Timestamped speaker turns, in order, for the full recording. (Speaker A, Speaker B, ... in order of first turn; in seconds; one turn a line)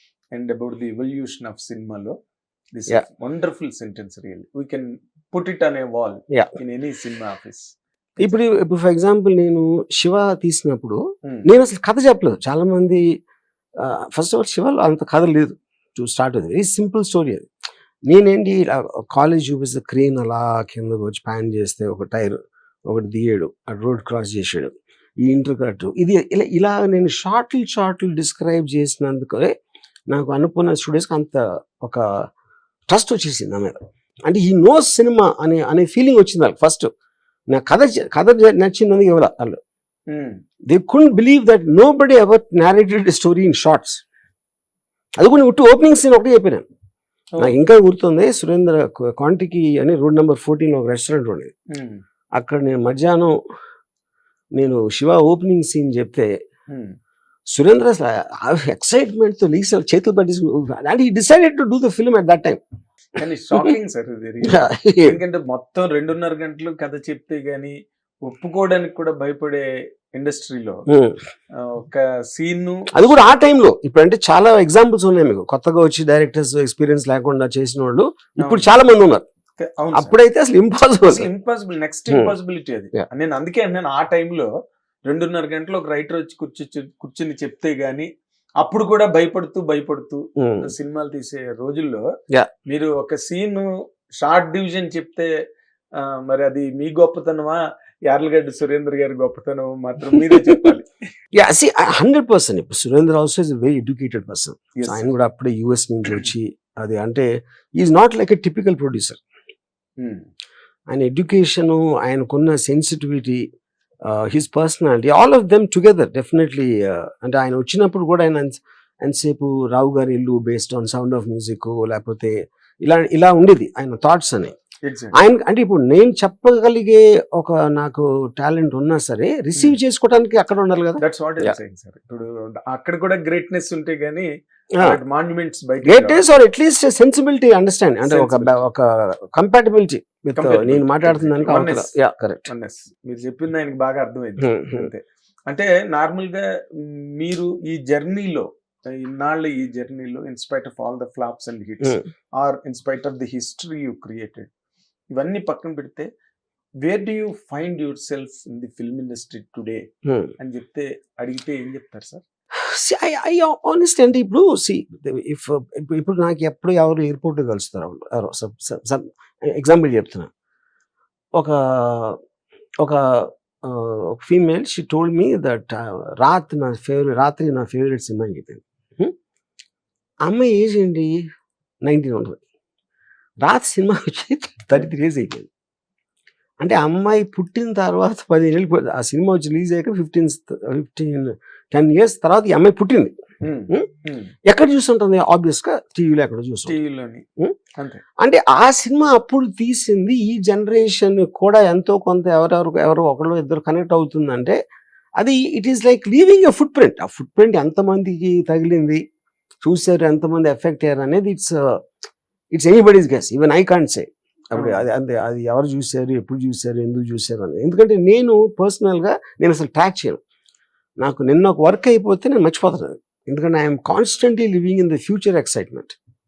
Speaker A: 0.3-2.2
Speaker A: 2.7-7.7
Speaker B: 8.2-13.1
Speaker B: 13.8-17.5
Speaker B: 18.1-29.5
Speaker B: 30.1-32.3
Speaker B: 32.9-36.9
Speaker B: 37.5-39.6
Speaker A: 40.1-40.4
Speaker B: 40.7-44.0
Speaker B: 45.2-46.6
Speaker B: 47.4-51.5
Speaker A: 51.7-52.0
Speaker B: 52.4-53.4
Speaker B: 54.6-56.3
Speaker A: 56.7-57.0
Speaker B: 57.5-62.6
Speaker A: 63.2-70.9
Speaker B: 64.5-65.2
Speaker B: 70.9-71.2
Speaker A: 71.5-73.2
Speaker B: 72.9-79.2
Speaker A: 78.4-78.7
Speaker A: 79.6-80.2
Speaker B: 79.9-81.3
Speaker A: 81.0-84.5
Speaker B: 82.1-82.3
Speaker A: 85.1-88.1
Speaker A: 88.6-92.1
Speaker B: 90.4-90.7
Speaker A: 92.7-93.7
Speaker A: 94.2-95.3
Speaker A: 96.0-100.9
Speaker B: 100.2-100.5
Speaker B: 101.3-109.2
Speaker A: 104.8-105.1
Speaker A: 110.0-110.2
Speaker B: 110.9-113.5
Speaker B: 114.0-124.5
Speaker A: 124.8-125.2
Speaker B: 125.1-131.6
Speaker A: 131.0-136.2
Speaker B: 135.8-142.5
Speaker A: 138.1-138.5
Speaker A: 140.3-141.9
Speaker A: 142.5-154.5
Speaker B: 144.4-144.9
Speaker A: 155.1-156.1
Speaker A: 156.8-159.8
Speaker B: 160.1-160.3
Speaker A: 160.4-162.2
Speaker B: 162.6-170.3
Speaker B: 171.4-172.2
Speaker B: 172.8-179.1
Speaker B: 180.2-181.2
Speaker B: 181.8-182.4
Speaker B: 183.4-185.5
Speaker B: 186.6-193.1
Speaker A: 193.4-194.3
Speaker B: 194.5-196.8
Speaker A: 196.7-197.2
Speaker B: 198.2-204.6
Speaker B: 205.2-209.0
Speaker B: 209.6-211.8
Speaker B: 212.6-220.2
Speaker A: 214.6-214.9
Speaker B: 221.0-225.9